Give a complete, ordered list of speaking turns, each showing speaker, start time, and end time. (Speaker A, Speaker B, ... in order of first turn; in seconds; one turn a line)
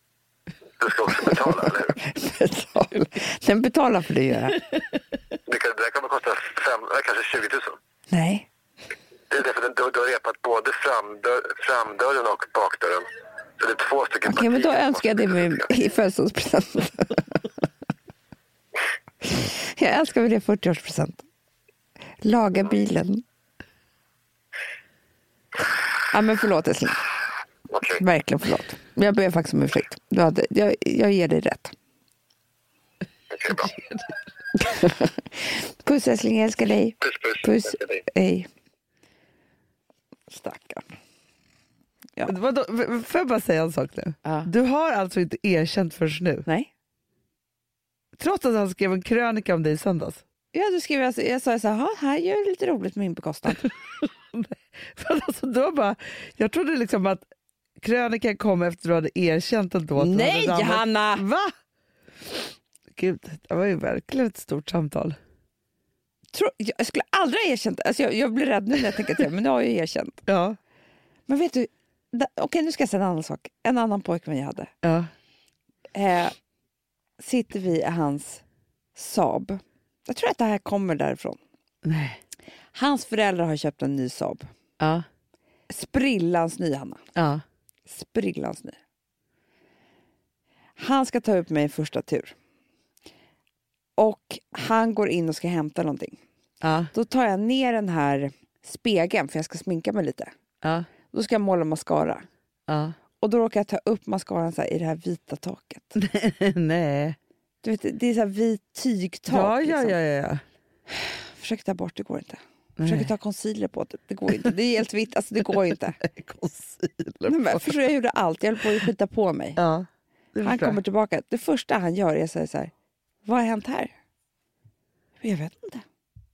Speaker A: 0.8-1.9
Speaker B: 2.0-4.6
Speaker A: 5.5-7.8
Speaker B: 8.1-8.5
Speaker A: 9.3-13.1
Speaker A: 13.6-15.7
Speaker B: 14.2-17.2
Speaker B: 19.2-21.2
Speaker B: 22.2-23.2
Speaker B: 26.1-27.0
Speaker A: 27.7-28.0
Speaker B: 28.0-31.7
Speaker A: 33.3-33.8
Speaker C: 33.7-33.9
Speaker B: 34.7-38.5
Speaker A: 37.0-38.0
Speaker B: 40.3-40.8
Speaker C: 42.2-46.4
Speaker C: 48.2-50.2
Speaker B: 50.5-53.6
Speaker C: 54.3-57.2
Speaker C: 57.8-61.5
Speaker B: 60.0-61.2
Speaker C: 62.9-65.2
Speaker B: 66.3-70.2
Speaker C: 70.3-70.6
Speaker B: 71.3-74.7
Speaker C: 74.8-75.1
Speaker B: 75.9-76.3
Speaker B: 77.2-78.4
Speaker B: 79.0-81.4
Speaker C: 81.8-82.2
Speaker B: 82.7-84.5
Speaker C: 84.8-85.0
Speaker B: 85.7-87.0
Speaker C: 87.2-87.4
Speaker B: 87.9-88.8
Speaker B: 90.8-92.3
Speaker B: 94.0-96.2
Speaker C: 96.6-96.9
Speaker B: 96.9-100.3
Speaker C: 100.6-100.9
Speaker B: 101.1-102.2
Speaker C: 102.7-102.9
Speaker B: 103.2-106.0
Speaker C: 106.0-107.2
Speaker B: 107.6-110.0
Speaker C: 109.3-110.4
Speaker B: 110.9-116.0
Speaker C: 112.8-113.1
Speaker C: 116.0-117.8
Speaker B: 117.2-119.6
Speaker C: 119.6-120.8
Speaker B: 120.4-122.7
Speaker B: 123.2-123.9
Speaker B: 125.2-125.8